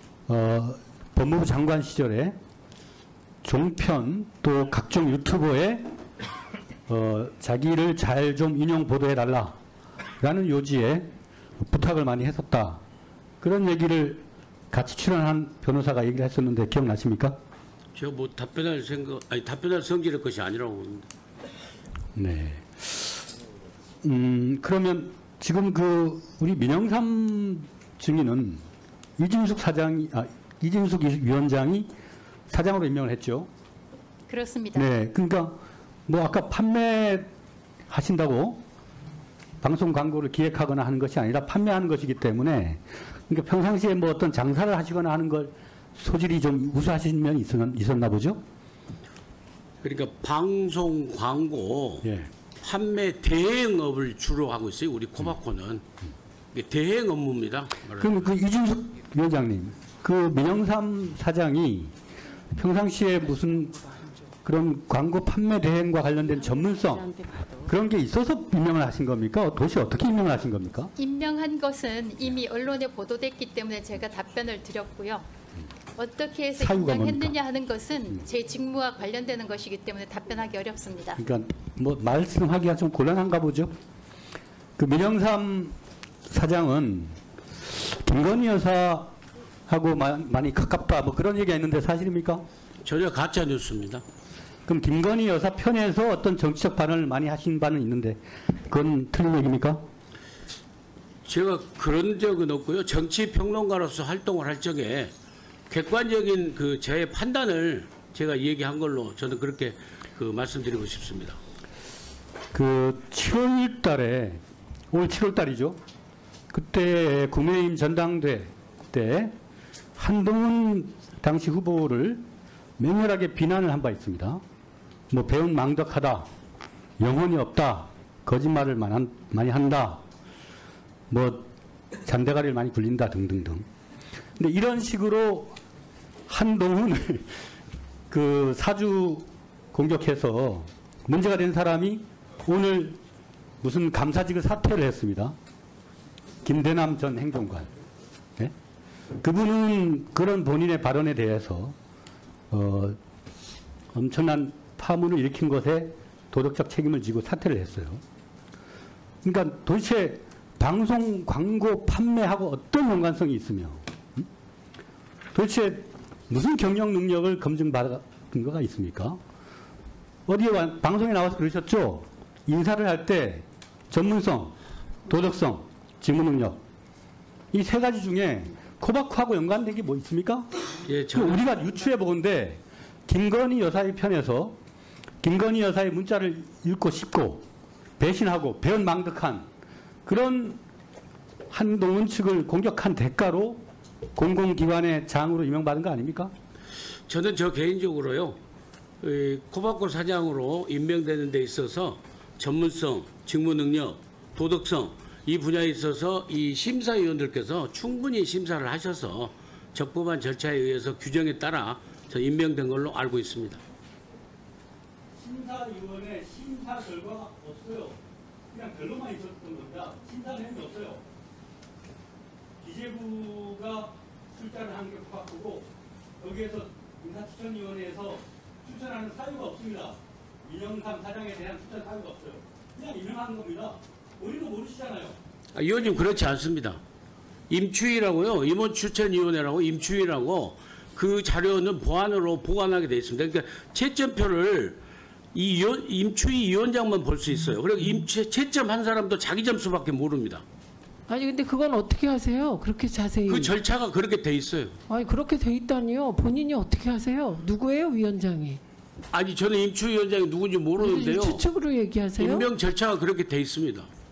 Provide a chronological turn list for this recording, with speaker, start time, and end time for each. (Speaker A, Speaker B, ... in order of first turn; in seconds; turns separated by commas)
Speaker A: 0.3-2.4, Speaker A: 3.4-5.8, Speaker A: 6.9-9.5, Speaker A: 10.2-11.1, Speaker A: 11.6-12.8, Speaker A: 13.4-17.4, Speaker B: 17.9-21.1, Speaker A: 22.1-23.2, Speaker A: 24.0-28.6, Speaker A: 29.2-31.9, Speaker A: 32.5-33.5, Speaker C: 34.3-34.9, Speaker A: 34.7-35.6, Speaker A: 36.1-37.3, Speaker A: 37.9-38.6, Speaker A: 39.6-48.4, Speaker B: 49.8-52.1, Speaker A: 52.0-52.3, Speaker B: 52.6-55.8, Speaker B: 56.5-58.1, Speaker A: 58.0-61.9, Speaker A: 62.5-63.8, Speaker A: 64.4-70.9, Speaker C: 71.0-75.3, Speaker C: 76.0-81.2, Speaker A: 76.5-77.4, Speaker A: 81.2-83.7, Speaker A: 84.8-85.8, Speaker A: 86.3-87.2, Speaker A: 87.8-89.2, Speaker A: 89.7-92.5, Speaker B: 92.8-94.0, Speaker A: 94.7-99.8, Speaker B: 101.2-105.1, Speaker B: 105.7-111.4, Speaker A: 112.5-115.8, Speaker A: 116.5-119.3, Speaker A: 120.0-122.2, Speaker A: 122.8-124.4, Speaker A: 125.1-126.2, Speaker A: 127.0-130.0, Speaker A: 131.1-131.5, Speaker A: 132.1-133.7, Speaker A: 134.4-135.6, Speaker A: 136.3-137.3, Speaker A: 138.1-143.0, Speaker A: 143.6-145.4, Speaker A: 146.4-147.7, Speaker A: 149.2-151.8, Speaker A: 152.5-153.0, Speaker A: 153.9-158.0, Speaker A: 159.2-164.3, Speaker A: 165.3-169.2, Speaker A: 170.3-174.6, Speaker A: 175.1-176.6, Speaker A: 177.5-180.5, Speaker B: 180.8-181.4, Speaker A: 181.1-184.6, Speaker A: 185.2-187.5, Speaker A: 188.0-189.5, Speaker A: 190.1-190.6, Speaker A: 191.5-193.6, Speaker A: 194.2-196.3, Speaker B: 197.1-198.4, Speaker B: 199.0-213.6, Speaker A: 215.2-218.0, Speaker A: 218.5-221.0, Speaker A: 222.6-225.7, Speaker A: 226.2-235.2, Speaker B: 235.5-236.8, Speaker B: 237.5-244.8, Speaker B: 245.3-250.4, Speaker D: 251.1-253.5, Speaker B: 253.3-254.8, Speaker D: 254.9-258.6, Speaker B: 259.1-261.5, Speaker D: 260.8-262.5, Speaker B: 262.2-263.9